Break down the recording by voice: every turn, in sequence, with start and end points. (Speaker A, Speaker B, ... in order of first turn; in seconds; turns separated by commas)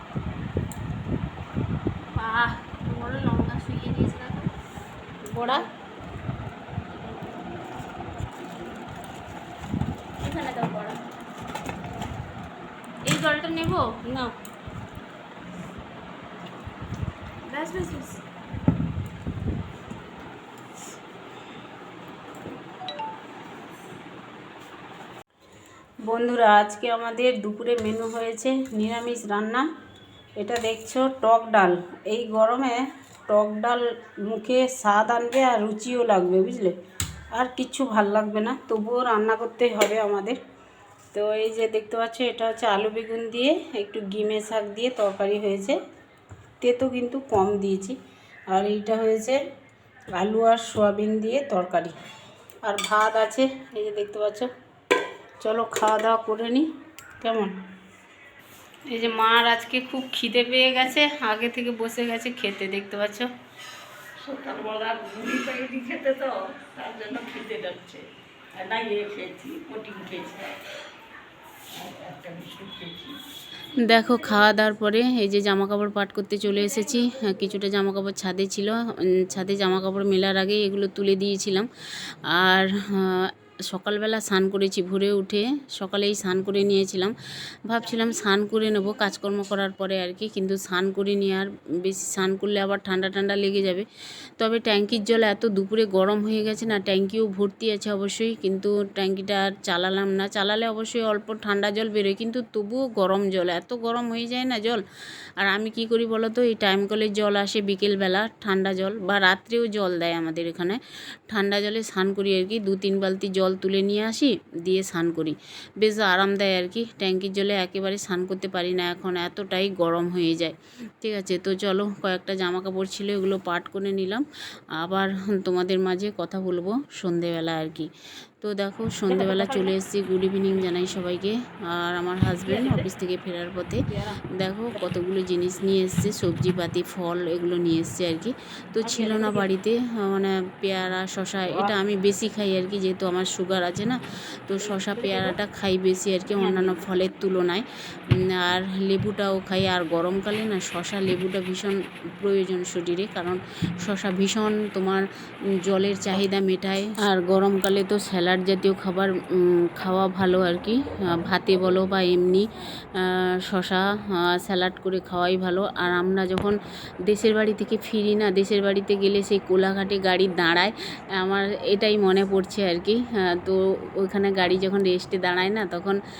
Speaker A: 2.1-4.5, Speaker B: 5.3-5.6, Speaker A: 7.0-7.4, Speaker A: 10.2-11.0, Speaker A: 13.0-14.3, Speaker A: 17.4-18.2, Speaker B: 26.1-29.7, Speaker B: 30.4-36.8, Speaker B: 37.3-40.4, Speaker B: 41.1-45.8, Speaker B: 46.6-48.0, Speaker B: 48.5-49.4, Speaker B: 50.1-52.0, Speaker B: 52.6-54.5, Speaker B: 55.4-56.7, Speaker B: 57.2-57.5, Speaker B: 58.9-63.3, Speaker B: 64.2-65.5, Speaker C: 64.6-68.0, Speaker C: 68.6-70.5, Speaker C: 71.8-73.1, Speaker B: 73.7-93.9, Speaker B: 94.4-104.8, Speaker B: 105.4-147.7, Speaker A: 139.0-139.3, Speaker A: 144.8-145.3, Speaker A: 146.5-146.8, Speaker B: 148.3-155.1, Speaker B: 155.6-176.0